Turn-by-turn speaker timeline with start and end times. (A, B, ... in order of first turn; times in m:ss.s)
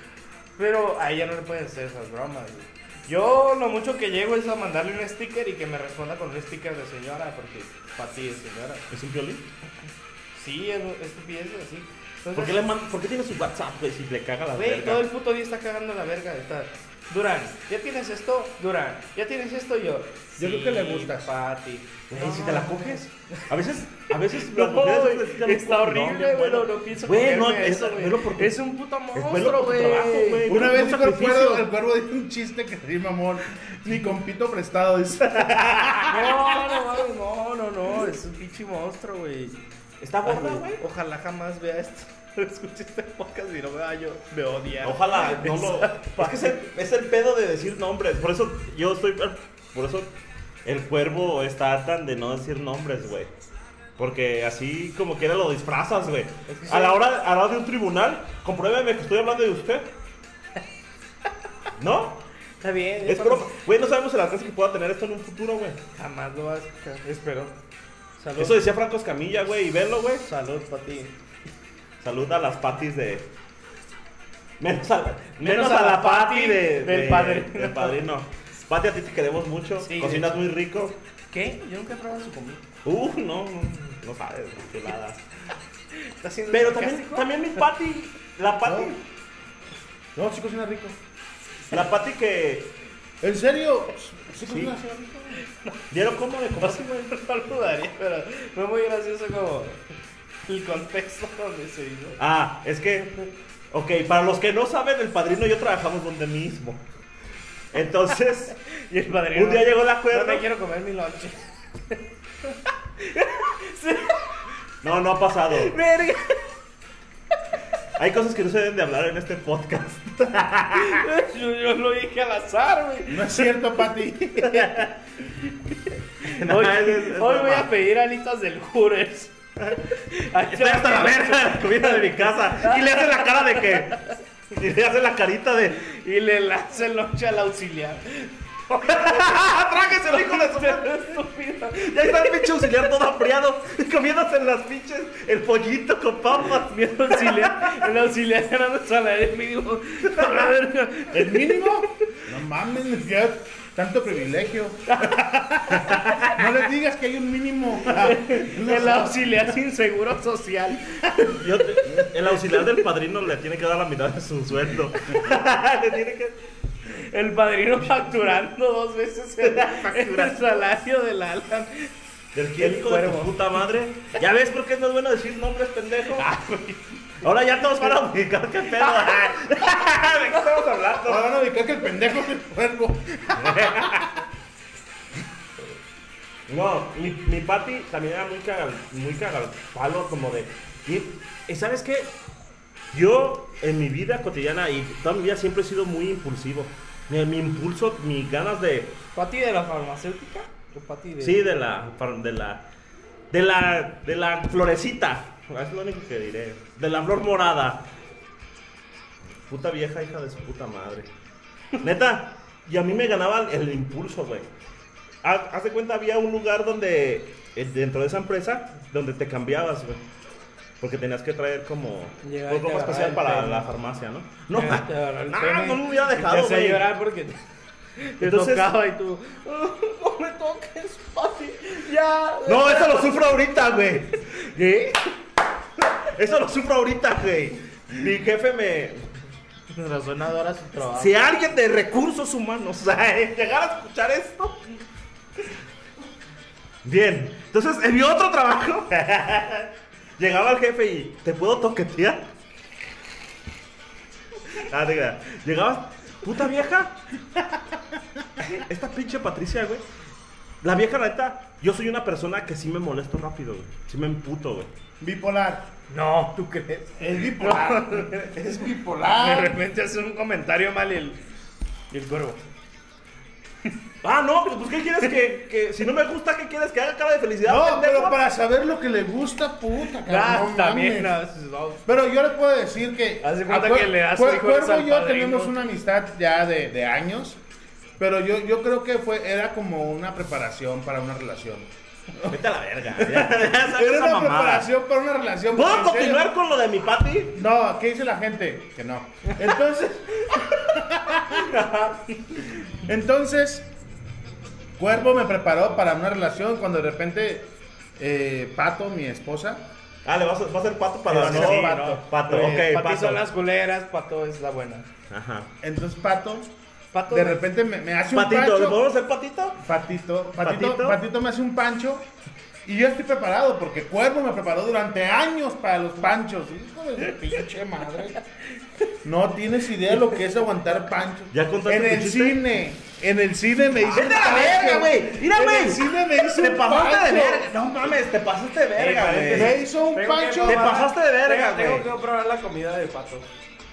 0:00.6-0:08.9 A
0:08.9-0:09.4 B
0:10.3-0:12.6 A
0:12.4-0:15.0 B
0:14.5-0:23.4 A
0:20.4-0:21.3 C
0:22.1-0:31.6 B
0:24.3-0:30.5 A
0:30.5-0:36.4 C
0:35.4-0:36.1 B
0:36.0-0:39.6 A
0:40.0-0:40.8 B
0:40.2-0:46.5 A
0:44.8-0:50.1 B
0:50.6-0:53.3 B
0:54.0-0:59.9 B
0:56.5-0:57.0 A
1:01.8-1:02.2 B
1:02.6-1:03.5 A
1:03.0-1:05.8 B
1:05.9-1:07.5 A
1:08.2-1:08.6 A
1:08.4-1:10.2 B
1:10.2-1:11.1 A
1:12.0-1:13.3 B
1:14.6-1:21.0 B
1:15.4-1:18.0 A
1:19.8-1:20.4 A
1:21.3-1:22.6 A
1:22.8-1:25.2 B
1:25.9-1:27.6 A
1:26.5-1:29.0 B
1:28.6-1:28.9 C
1:30.1-1:31.0 C
1:31.7-1:32.7 B
1:33.2-1:35.4 C
1:34.5-1:34.7 B
1:35.4-1:35.7 A
1:35.9-1:37.0 B
1:36.5-1:39.8 A
1:40.5-1:42.2 A
1:42.2-1:46.8 B
1:47.7-1:48.6 B
1:48.6-1:52.0 A
1:49.3-1:50.4 B
1:52.5-1:54.3 A
1:54.8-1:55.8 B
1:55.5-1:56.5 A
1:58.0-2:01.1 B
2:00.7-2:03.6 A
2:03.1-2:04.8 C
2:04.4-2:04.9 B
2:05.5-2:09.3 A
2:06.2-2:07.7 B
2:09.9-2:14.1 A
2:10.5-2:14.0 B
2:14.5-2:15.8 B
2:15.8-2:19.5 A
2:18.9-2:21.2 B
2:20.1-2:22.8 A
2:21.8-2:27.9 B
2:26.4-2:31.7 A
2:30.1-2:30.4 B
2:31.1-2:39.4 C
2:34.9-2:35.2 A
2:35.9-2:36.3 B
2:37.9-2:42.6 A
2:41.4-2:46.4 B
2:45.0-2:45.2 A
2:46.9-2:51.9 A
2:49.4-2:50.4 B
2:52.3-2:56.3 B
2:52.6-2:53.6 A
2:56.1-2:57.0 A
2:57.2-3:01.3 B
2:58.7-2:59.4 A
3:00.3-3:00.7 A
3:01.0-3:04.1 C
3:03.4-3:04.1 B
3:06.5-3:12.2 B
3:12.9-3:19.0 B
3:19.1-3:21.5 A
3:21.2-3:22.6 B
3:23.3-3:27.8 B
3:29.5-3:31.1 B
3:31.8-3:34.5 B
3:35.2-3:40.0 B
3:40.8-3:46.9 B
3:42.2-3:43.7 A
3:44.5-3:47.4 A
3:48.0-3:53.3 A
3:48.2-3:48.7 B
3:52.4-3:54.2 B
3:54.3-3:55.1 A
3:55.9-3:59.0 B
3:59.7-4:01.2 A
4:01.0-4:04.6 B
4:06.8-4:12.3 B
4:14.5-4:17.0 B
4:18.5-4:19.8 B
4:20.6-4:24.7 B
4:25.0-4:25.7 C
4:25.9-4:28.3 A
4:27.0-4:29.6 C
4:29.1-4:31.2 A
4:31.9-4:32.4 A
4:34.0-4:38.2 B
4:37.4-4:41.1 C
4:40.0-4:41.8 A
4:41.8-4:47.4 C
4:43.2-4:45.6 A
4:48.0-4:52.4 C
4:52.2-4:54.7 B
4:53.0-4:56.3 C
4:55.5-4:57.4 B
4:57.3-5:01.5 C
5:01.3-5:02.5 A
5:02.8-5:03.7 C
5:04.8-5:09.6 C
5:10.0-5:13.2 B
5:11.1-5:12.0 C
5:11.1-5:14.9 A
5:15.1-5:15.5 B
5:15.6-5:16.5 C
5:16.9-5:17.4 A
5:17.1-5:18.8 C
5:18.1-5:19.6 B
5:19.6-5:22.1 C
5:20.4-5:21.0 B
5:22.6-5:28.2 C
5:28.2-5:28.9 A
5:29.0-5:37.5 C
5:31.3-5:32.4 B
5:33.9-5:39.6 B
5:34.0-5:34.7 A
5:38.8-5:43.3 A
5:39.3-5:40.8 C
5:40.4-5:41.9 B